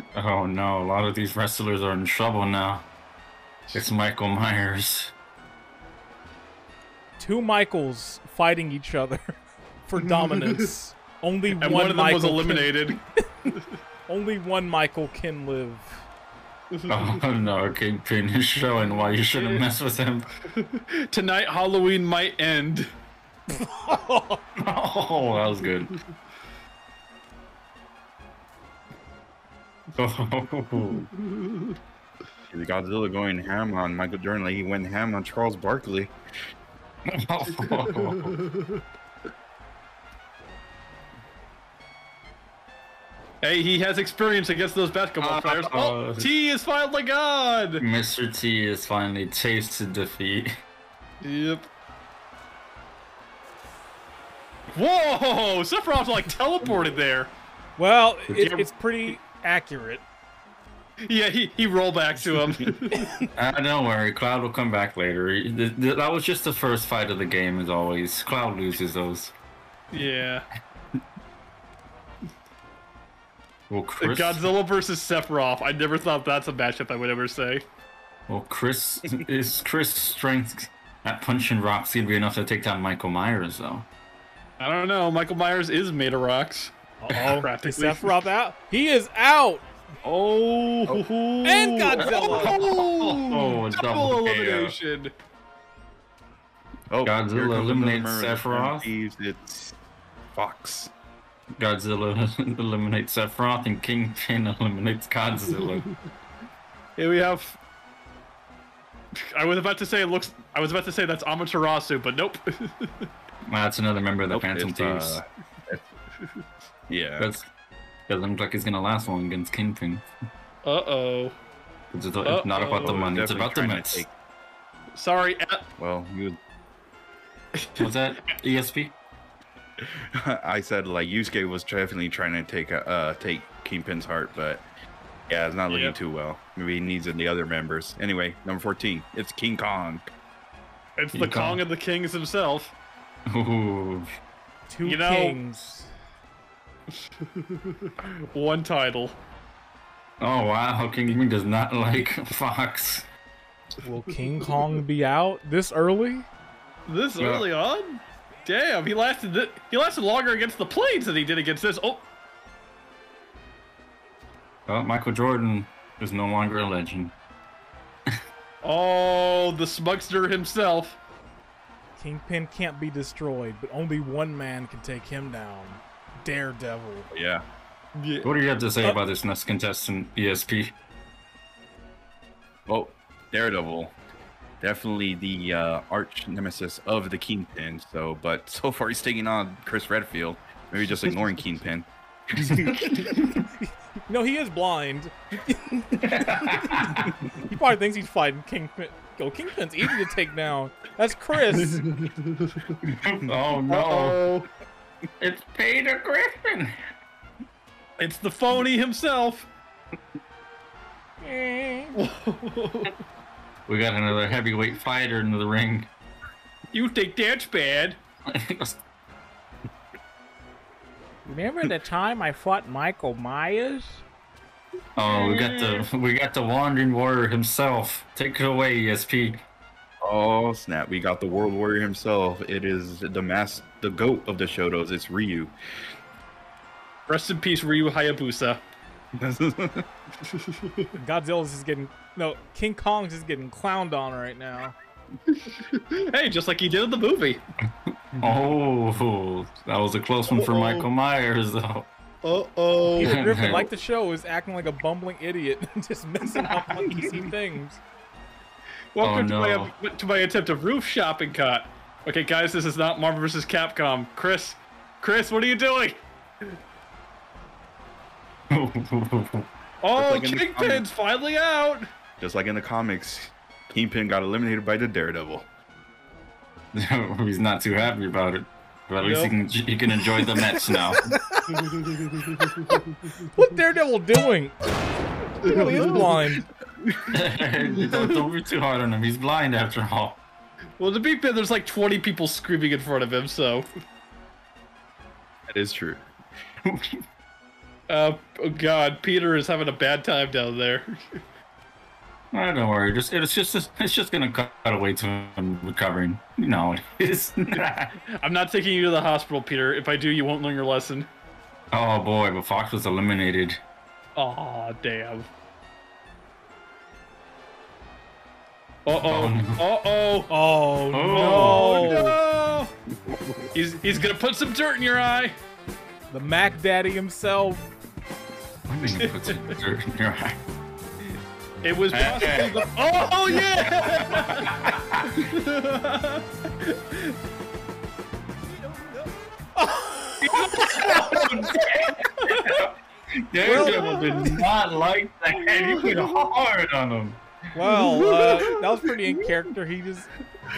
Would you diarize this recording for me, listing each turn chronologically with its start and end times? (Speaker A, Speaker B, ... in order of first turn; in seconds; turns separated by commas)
Speaker A: 0.1-2.8, Speaker A: 3.7-5.1, Speaker B: 7.2-13.5, Speaker C: 10.0-10.7, Speaker C: 11.6-13.0, Speaker B: 14.1-16.0, Speaker C: 16.7-17.2, Speaker A: 16.9-20.3, Speaker C: 19.3-19.6, Speaker C: 20.5-22.9, Speaker B: 23.5-24.4, Speaker A: 24.6-25.9, Speaker A: 30.0-31.1, Speaker C: 31.1-31.7, Speaker D: 32.5-36.1, Speaker A: 37.1-38.4, Speaker C: 37.6-38.8, Speaker C: 43.4-47.8, Speaker A: 45.2-46.3, Speaker A: 47.8-50.5, Speaker C: 51.2-51.6, Speaker C: 54.7-57.3, Speaker D: 56.6-56.9, Speaker B: 57.8-60.0, Speaker A: 58.3-58.7, Speaker C: 61.1-63.1, Speaker A: 63.4-69.3, Speaker C: 69.9-70.5, Speaker A: 73.7-74.4, Speaker C: 74.0-77.6, Speaker A: 78.3-83.8, Speaker C: 84.6-88.2, Speaker B: 87.0-89.7, Speaker C: 90.0-95.1, Speaker B: 91.4-92.5, Speaker A: 91.9-94.8, Speaker D: 96.9-99.8, Speaker A: 97.0-98.9, Speaker D: 100.3-100.9, Speaker A: 101.6-105.8, Speaker C: 105.5-106.0, Speaker C: 107.0-107.6, Speaker C: 109.2-113.1, Speaker A: 113.5-115.2, Speaker D: 114.3-115.8, Speaker D: 116.9-117.3, Speaker A: 117.2-117.5, Speaker A: 118.1-120.0, Speaker C: 120.6-121.4, Speaker A: 121.9-124.0, Speaker C: 122.2-123.0, Speaker D: 122.8-124.1, Speaker C: 124.9-125.6, Speaker D: 125.8-126.4, Speaker C: 127.5-128.3, Speaker A: 127.8-128.9, Speaker D: 129.8-134.6, Speaker D: 135.3-140.1, Speaker C: 135.7-135.9, Speaker C: 141.0-142.7, Speaker A: 141.1-141.6, Speaker A: 143.3-144.1, Speaker B: 144.7-145.9, Speaker C: 144.8-145.4, Speaker C: 147.3-149.2, Speaker A: 150.2-153.0, Speaker B: 153.8-156.3, Speaker C: 156.9-162.0, Speaker A: 157.2-157.5, Speaker A: 164.7-167.1, Speaker C: 168.6-171.0, Speaker B: 172.0-177.1, Speaker D: 177.1-177.4, Speaker C: 177.9-178.3, Speaker A: 178.2-180.7, Speaker D: 182.7-183.9, Speaker D: 184.6-192.9, Speaker A: 192.6-193.5, Speaker B: 193.6-201.8, Speaker A: 196.0-197.1, Speaker C: 201.5-202.8, Speaker A: 202.8-204.2, Speaker C: 203.7-204.5, Speaker A: 205.2-206.7, Speaker C: 208.0-209.5, Speaker B: 211.2-211.9, Speaker C: 211.9-212.9, Speaker A: 213.7-215.9, Speaker C: 216.7-218.0, Speaker A: 218.3-218.8, Speaker B: 221.2-224.0, Speaker A: 224.9-229.4, Speaker C: 225.0-225.9, Speaker D: 230.0-235.5, Speaker C: 237.1-238.6, Speaker D: 239.2-239.9, Speaker C: 240.3-240.9, Speaker B: 241.0-244.8, Speaker C: 245.3-247.4, Speaker A: 248.2-251.9, Speaker C: 250.3-250.9, Speaker C: 252.2-253.2, Speaker B: 252.9-257.8, Speaker A: 253.0-253.7, Speaker A: 256.4-256.9, Speaker C: 258.9-266.0, Speaker A: 259.0-259.7, Speaker A: 268.5-269.5, Speaker C: 269.8-271.9, Speaker D: 269.9-270.9, Speaker D: 272.2-275.5, Speaker A: 276.7-281.1, Speaker C: 279.0-279.3, Speaker B: 281.1-281.7, Speaker C: 281.5-283.2, Speaker B: 283.3-284.7, Speaker B: 285.4-286.4, Speaker C: 285.4-286.1, Speaker A: 287.1-290.2, Speaker C: 287.7-288.2, Speaker C: 290.8-293.7, Speaker D: 295.5-296.1, Speaker A: 296.6-297.0, Speaker C: 297.9-300.9, Speaker A: 302.3-308.0, Speaker C: 308.2-311.1, Speaker A: 311.7-313.6, Speaker C: 314.1-315.3, Speaker C: 318.9-320.3, Speaker A: 319.1-319.6, Speaker B: 320.3-322.2, Speaker A: 320.9-322.0, Speaker C: 321.1-322.7, Speaker A: 323.1-323.4, Speaker C: 323.5-325.4, Speaker B: 326.1-327.7, Speaker A: 328.7-330.4, Speaker C: 328.8-329.6, Speaker C: 331.6-337.1, Speaker A: 331.9-332.7, Speaker A: 333.4-335.3, Speaker B: 339.6-340.6, Speaker A: 340.2-347.2, Speaker C: 340.4-341.2, Speaker C: 342.2-342.6, Speaker C: 343.4-344.4, Speaker B: 343.4-344.3, Speaker C: 345.3-346.2, Speaker B: 347.5-350.1, Speaker C: 347.8-349.4